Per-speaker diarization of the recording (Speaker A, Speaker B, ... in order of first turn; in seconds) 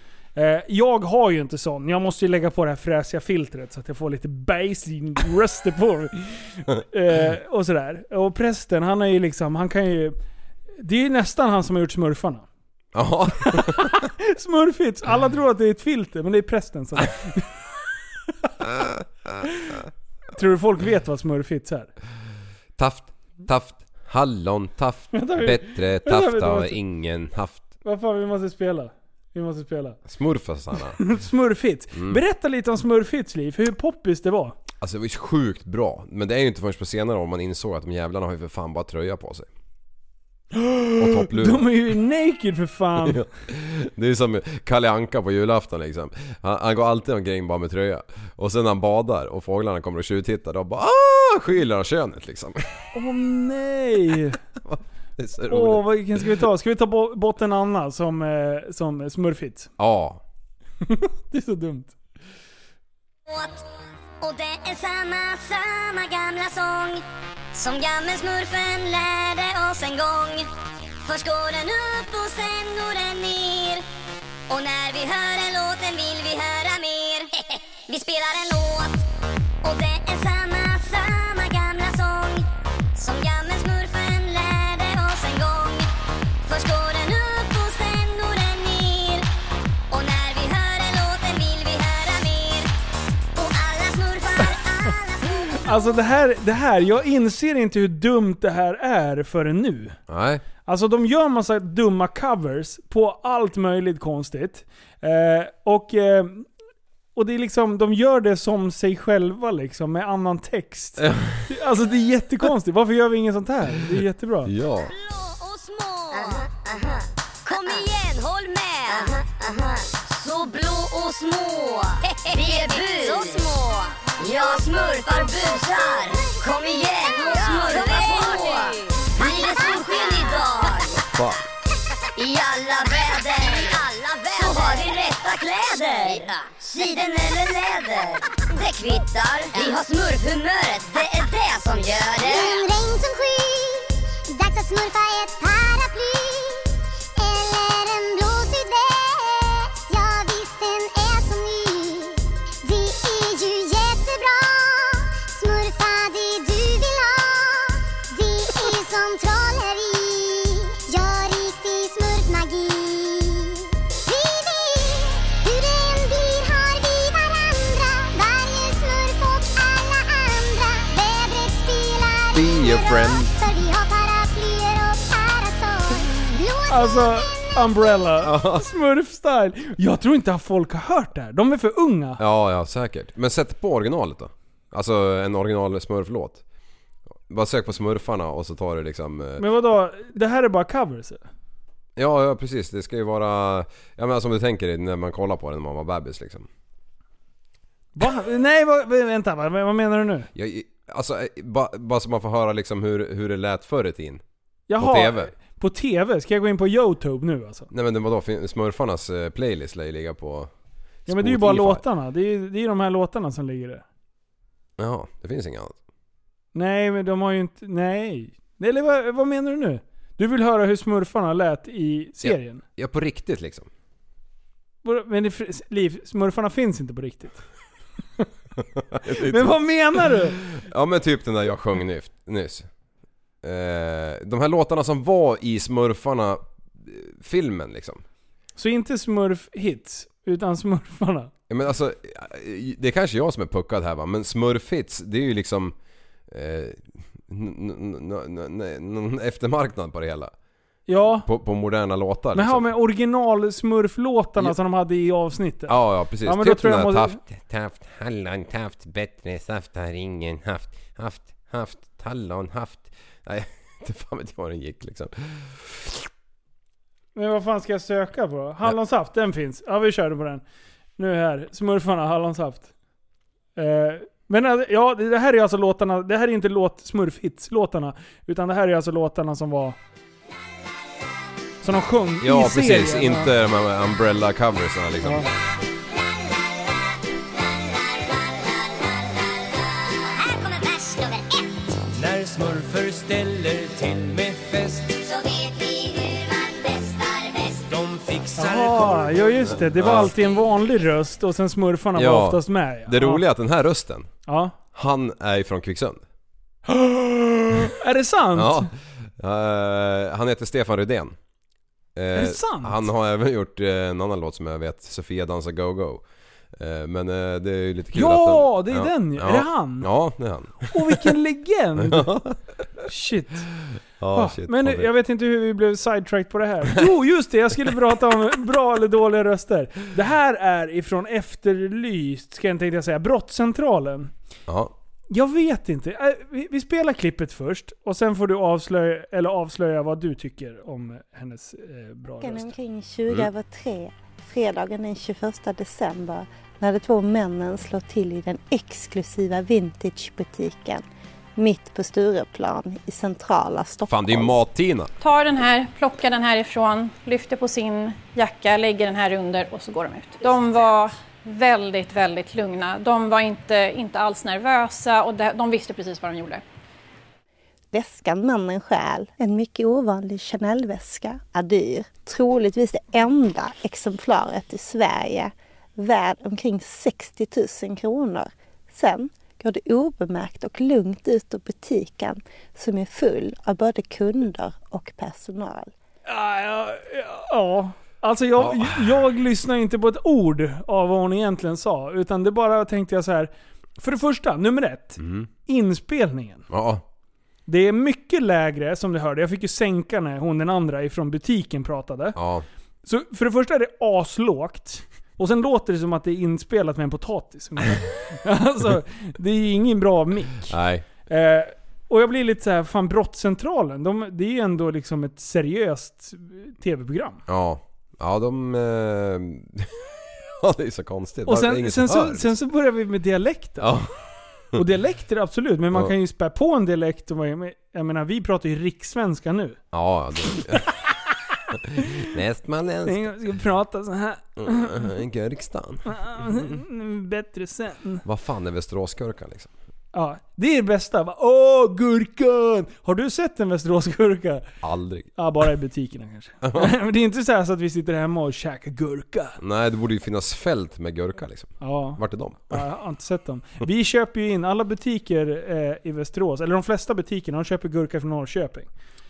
Speaker A: 0.3-10.2, 10.8-12.4, 13.4-17.5, 19.4-19.8, 20.3-21.9, 25.1-26.8, 27.8-30.0, 31.0-34.6, 40.5-43.2, 52.9-54.4, 55.5-59.7, 60.8-61.9, 95.5-100.0, 100.6-106.5, 107.1-114.5, 176.7-182.2, 189.4-191.2, 197.9-200.3, 204.7-207.7, 211.1-213.8, 216.5-222.6, 224.8-227.4, 229.1-230.4, 238.6-241.3, 250.9-251.3, 252.3-257.2, 267.1-270.4, 271.0-272.7, 273.6-279.8, 281.6-283.3, 298.4-303.2, 304.2-304.6, 306.7-308.7, 312.1-312.8, 317.9-319.9, 320.7-322.1, 322.9-323.5, 324.1-334.1, 335.1-342.5, 386.1-396.5, 397.5-402.2, 402.8-410.6, 411.1-417.2, 421.2-423.7, 424.5-429.6, 432.9-434.9, 435.8-438.0, 439.9-444.5, 445.2-449.4, 451.6-458.7
Speaker B: 12.9-14.0, 18.6-19.0, 22.8-27.6, 30.1-31.0, 31.9-32.2, 34.8-39.5, 41.0-41.7, 43.0-52.6, 54.6-56.4, 59.8-60.2, 100.1-100.4, 111.0-111.4, 114.4-114.9, 131.1-131.4, 172.3-173.3, 178.2-178.7, 182.2-186.4, 187.3-189.4, 191.9-196.5, 200.3-204.2, 204.8-205.3, 207.7-210.5, 211.1-211.8, 214.8-215.8, 222.2-223.7, 228.8-229.6, 230.4-232.7, 233.4-238.0, 241.5-245.7, 246.3-250.3, 251.1-252.7, 255.7-266.1, 282.2-285.3, 299.5-300.1, 301.9-304.1, 304.7-306.0, 308.3-311.1, 311.9-316.0, 316.6-321.1, 321.8-322.8, 324.0-324.9, 334.5-334.7, 353.9-354.9, 388.4-388.9, 395.0-395.3, 396.5-396.8, 402.1-402.4, 410.5-410.9, 417.3-422.3, 423.6-423.9, 429.7-430.7, 431.5-433.2, 434.4-436.4, 438.0-439.5, 444.6-445.1, 446.4-446.7, 449.4-452.6
Speaker C: 63.3-63.6, 64.2-70.5, 71.0-73.8, 74.5-79.0, 79.6-85.9, 86.5-89.2, 89.9-92.7, 93.3-95.8, 114.9-131.0, 132.2-142.6, 288.0-289.5, 290.1-291.4, 295.0-297.6
Speaker D: 129.2-130.3, 142.2-177.6
Speaker E: 291.9-295.0, 297.7-299.5
Speaker F: 342.2-350.8, 351.4-354.4, 367.7-385.7
Speaker G: 355.0-366.4